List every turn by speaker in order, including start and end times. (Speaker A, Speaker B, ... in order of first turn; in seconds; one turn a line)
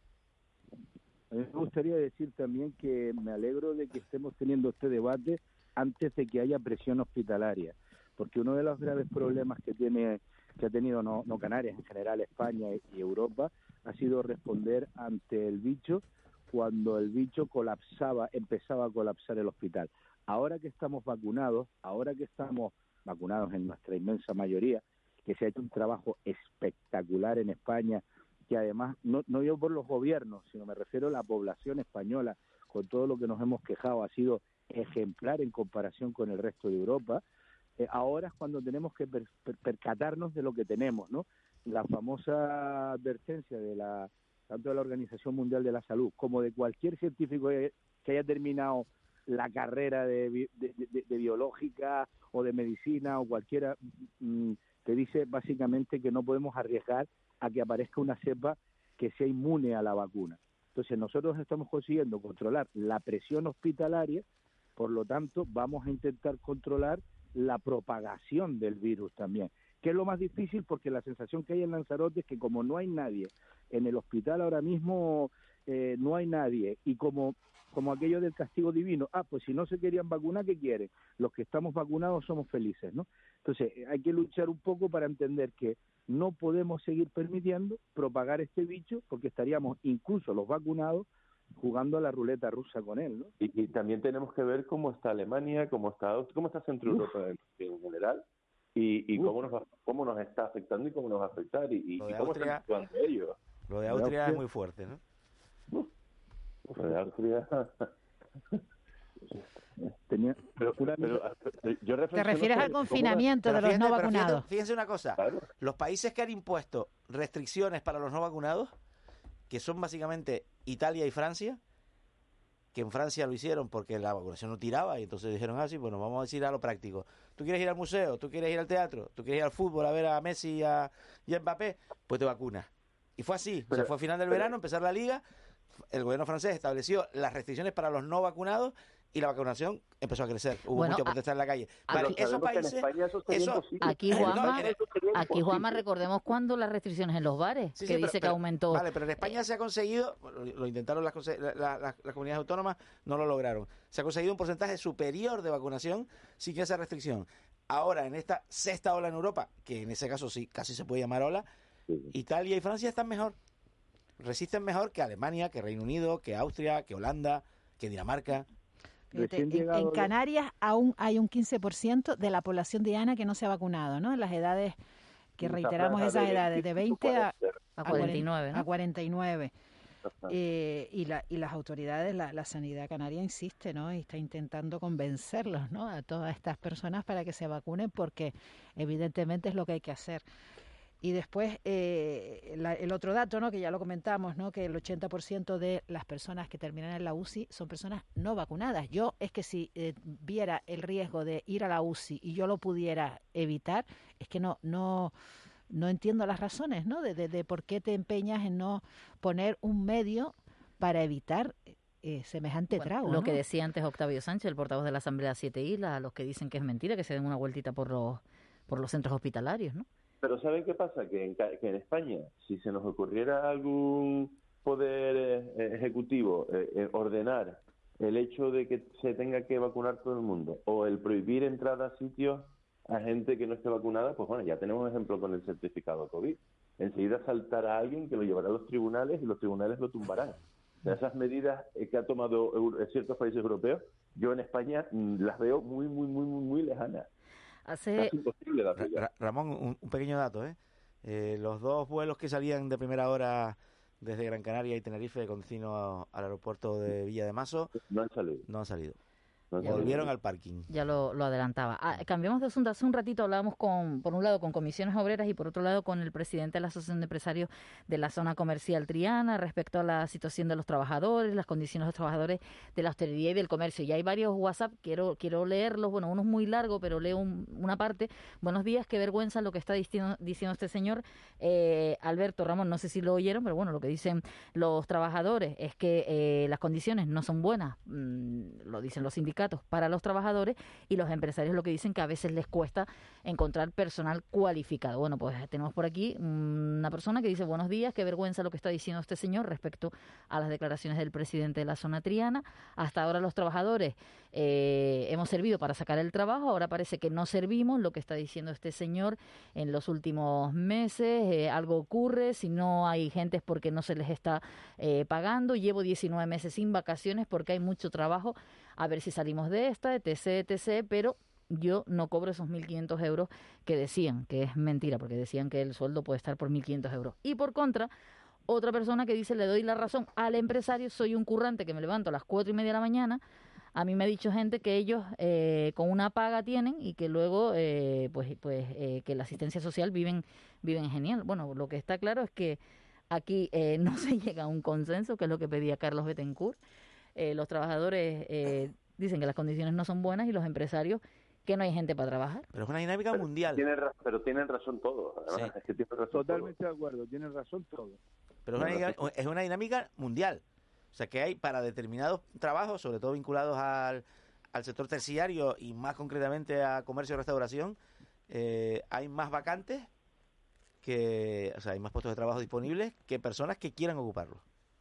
Speaker A: 1.3-37.2
Speaker A: 37.8-64.2
Speaker A: 64.8-93.3
Speaker B: 93.4-98.2
Speaker B: 98.8-103.4
Speaker C: 102.0-102.6
Speaker C: 103.7-105.0
Speaker A: 103.9-104.4
Speaker B: 106.7-107.9
Speaker A: 110.1-111.2
Speaker B: 110.6-113.3
Speaker D: 112.1-114.5
Speaker C: 113.4-118.7
Speaker B: 115.2-115.5
Speaker C: 119.5-121.6
Speaker C: 122.7-135.2
Speaker B: 133.7-134.5
Speaker C: 135.9-144.7
Speaker E: 140.7-141.2
Speaker B: 141.9-145.8
Speaker E: 141.9-142.2
Speaker E: 143.8-149.3
Speaker C: 147.8-161.4
Speaker C: 162.1-163.4
Speaker C: 164.2-168.5
Speaker D: 169.1-174.8
Speaker A: 169.1-170.1
Speaker D: 175.4-177.3
Speaker B: 175.4-178.0
Speaker E: 177.8-178.7
Speaker D: 177.8-179.5
Speaker D: 180.3-190.2
Speaker D: 191.0-205.1
Speaker D: 205.7-213.4
Speaker E: 212.7-219.8
Speaker B: 220.2-247.1
Speaker E: 247.7-248.1
Speaker B: 248.0-249.0
Speaker C: 248.8-257.7
Speaker B: 257.8-258.5
Speaker C: 258.5-259.0
Speaker B: 259.5-260.1
Speaker C: 259.6-260.7
Speaker E: 260.7-327.9
Speaker E: 328.5-333.2
Speaker E: 333.7-342.6
Speaker E: 343.1-346.6
Speaker E: 347.1-352.5
Speaker C: 352.5-353.6
Speaker B: 353.1-356.5
Speaker A: 356.1-358.0
Speaker C: 358.5-360.4
Speaker B: 358.6-358.9
Speaker C: 360.9-367.8
Speaker C: 368.3-369.9
Speaker C: 370.8-374.4